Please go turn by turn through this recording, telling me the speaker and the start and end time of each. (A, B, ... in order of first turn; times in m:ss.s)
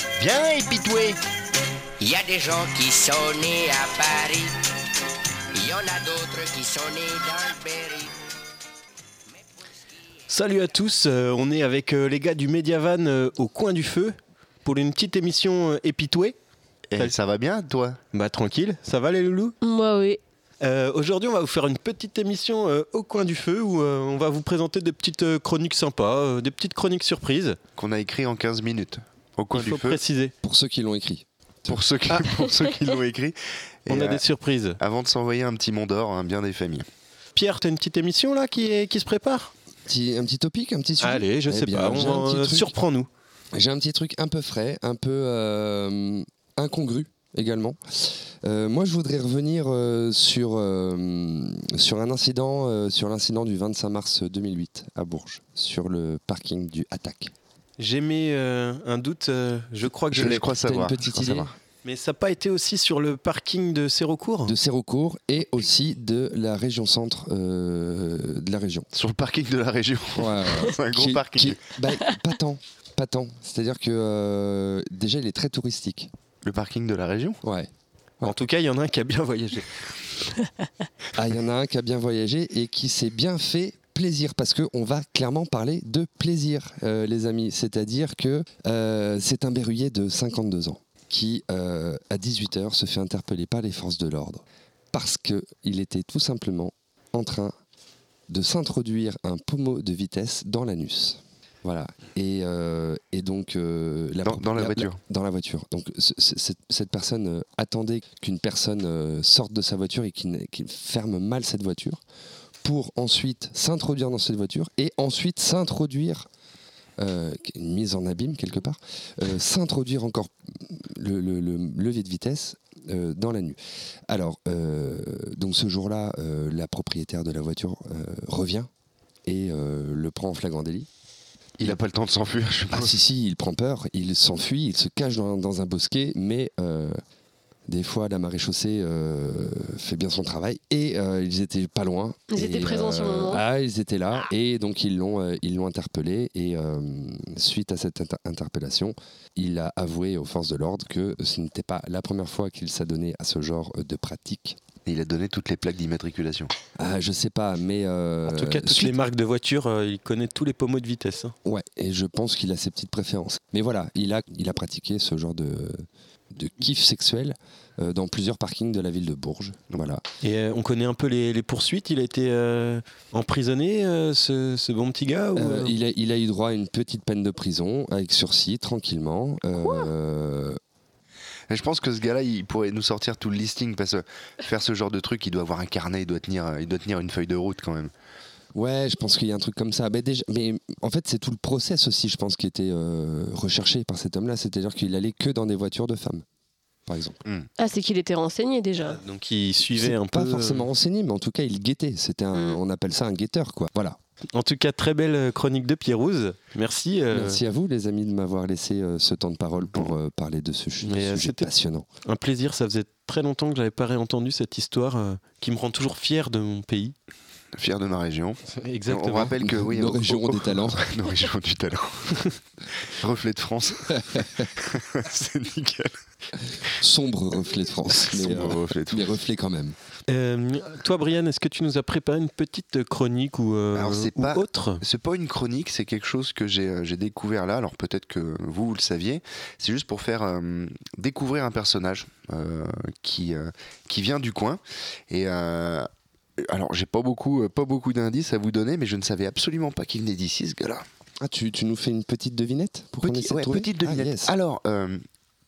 0:00.2-0:01.2 A
0:02.0-0:04.6 B
0:05.5-0:08.1 B
0:10.3-0:16.4 C
0:16.9-0:18.0 A
0:18.1-0:19.6 C
0:19.6-0:20.2 D
0:20.6-0:27.6 C
0:27.8-0:30.0 A
0:29.5-0:30.3 C
0:30.4-0:31.8 E
0:31.7-0:34.3 A
0:33.9-0:34.8 C
0:34.8-0:36.9 A
0:37.4-0:39.5 C
0:39.9-0:42.7 E
0:41.0-0:43.1 C
0:43.5-0:57.3 E
0:57.8-1:00.5 C
1:00.1-1:01.6 A
1:00.1-1:01.5 E
1:01.8-1:04.5 C
1:04.4-1:08.9 E
1:08.9-1:11.6 A
1:10.2-1:16.1 E
1:16.4-1:17.4 A
1:17.4-1:17.7 E
1:18.2-1:19.9 C
1:21.2-1:37.5 E
1:38.3-1:52.0 E
1:44.2-1:45.0 A
1:52.6-1:56.3 E
1:57.0-2:08.7 E
2:09.3-2:10.9 E
2:11.6-2:13.0 A
2:12.7-2:17.0 E
2:17.7-2:34.6 E
2:22.3-2:23.4 D
2:34.8-2:36.5 A
2:36.8-2:39.0 E
2:38.3-2:41.3 C
2:41.4-2:50.0 E
2:50.2-2:55.8 C
2:55.4-3:00.6 E
3:01.5-3:07.9 A
3:08.5-3:16.2 E
3:16.9-3:17.2 E
3:17.6-3:19.0 D
3:18.8-3:20.7 C
3:19.7-3:24.0 E
3:22.3-3:22.6 D
3:24.3-3:27.4 C
3:27.1-3:31.9 E
3:30.8-3:31.5 C
3:32.0-3:37.0 C
3:37.6-3:45.9 A
3:38.5-3:39.4 C
3:39.4-3:40.9 E
3:44.1-3:44.5 E
3:46.7-3:49.8 E
3:47.9-3:49.1 A
3:50.1-3:54.8 C
3:53.8-4:05.9 A
4:06.5-4:10.8 A
4:11.2-4:14.3 E
4:13.0-4:15.0 A